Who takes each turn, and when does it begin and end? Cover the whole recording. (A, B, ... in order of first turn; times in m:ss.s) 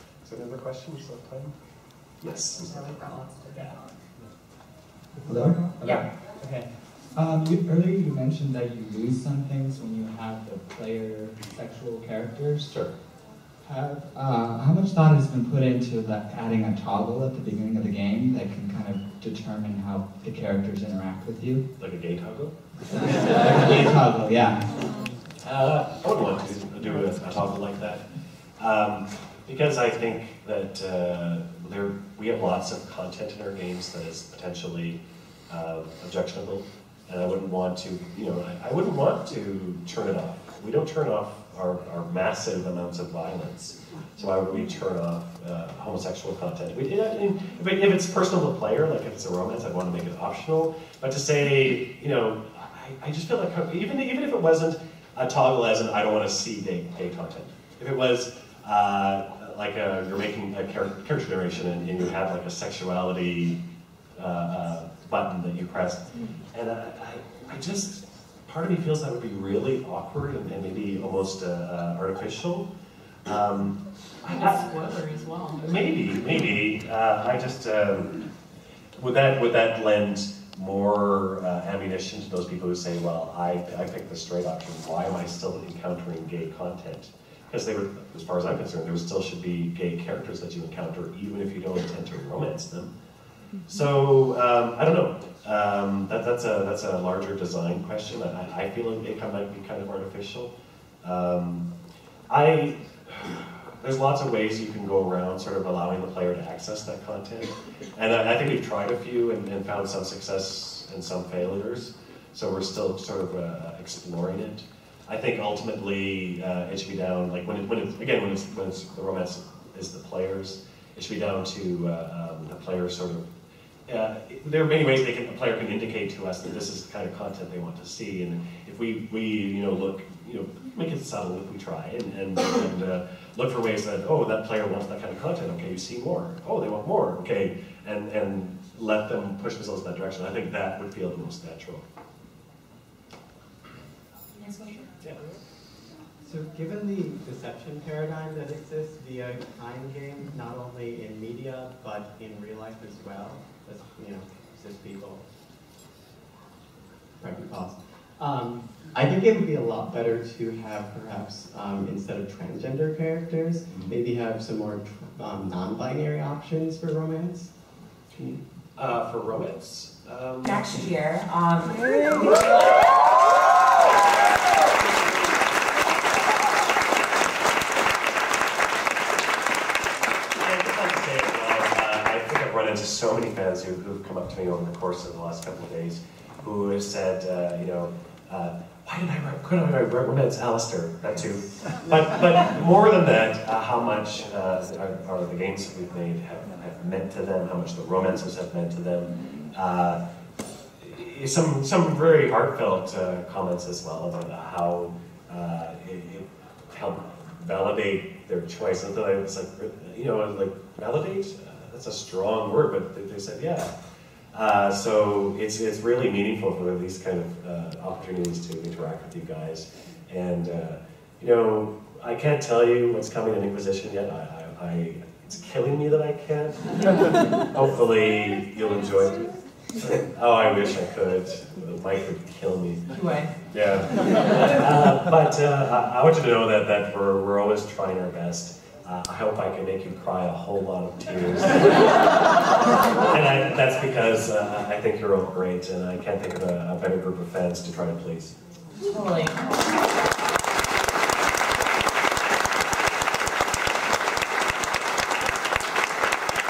0:00.2-0:01.5 A
0:02.2-0:03.0 A
0:02.6-0:03.8 B
0:05.2-0:12.9 C
0:13.6-0:21.7 C
0:21.8-0:22.6 A
0:22.9-0:24.7 C
0:25.4-0:28.0 A
0:28.6-1:03.6 A
1:04.2-1:12.7 A
1:13.3-1:14.7 A
1:14.7-1:15.6 B
1:15.6-1:18.2 A
1:19.0-1:32.9 A
1:33.7-1:41.7 A
1:42.3-2:03.2 A
2:03.9-2:21.8 A
2:24.4-2:24.9 B
2:26.2-2:35.2 D
2:37.2-2:47.5 D
2:43.7-2:44.0 A
2:48.8-2:50.7 A
2:50.4-2:52.7 B
3:00.4-3:20.0 A
3:20.8-3:33.7 A
3:34.3-3:52.8 A
3:52.9-3:53.3 B
3:53.5-4:02.4 A
4:02.9-4:08.4 A
4:08.8-4:09.4 B